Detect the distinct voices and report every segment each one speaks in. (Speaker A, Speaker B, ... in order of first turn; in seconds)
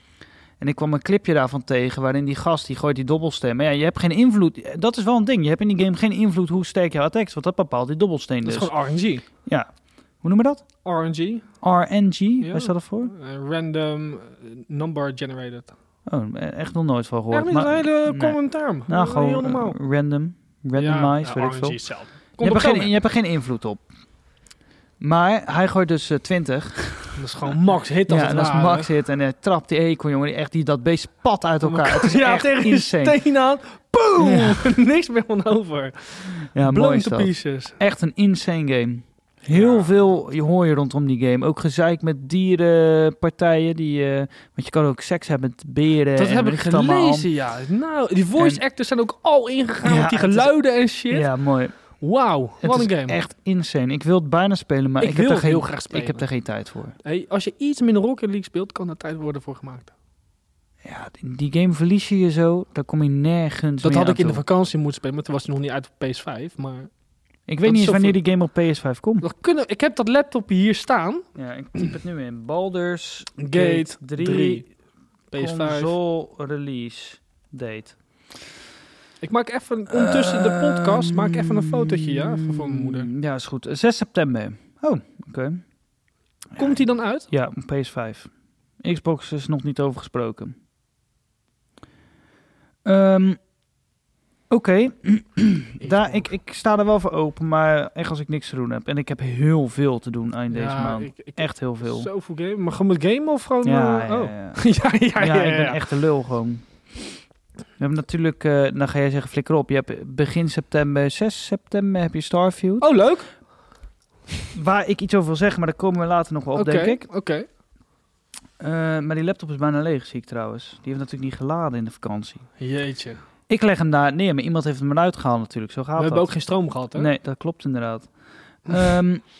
Speaker A: 0.6-8.7, 10.2-10.6, 11.6-13.1, 16.1-21.8, 22.4-23.8, 25.0-27.2, 28.1-33.2, 34.2-34.7, 36.5-47.3, 49.8-50.5, 51.1-51.8, 52.6-57.0, 60.8-64.4, 67.5-69.2, 71.3-74.7, 75.3-78.0, 79.9-85.6, 86.5-88.3, 88.8-90.5, 92.8-93.4, 94.5-102.1, 103.6-104.6, 105.2-106.6, 107.8-112.9, 114.5-117.0, 118.6-122.4, 123.5-126.3, 126.9-128.1, 128.7-129.2
Speaker B: 8.4-9.2, 10.8-11.5, 12.4-15.7, 17.3-19.8, 20.8-22.9, 27.1-28.9, 31.6-37.8, 39.5-39.9, 46.1-51.3, 52.0-53.2, 55.0-56.2, 57.0-59.9, 63.8-66.9, 67.6-68.2, 69.2-71.2, 73.4-74.6, 75.3-75.9, 79.2-83.1, 86.6-87.3, 95.8-96.2, 100.5-105.8, 112.8-113.3, 116.5-117.5, 122.6-123.2, 126.0-127.1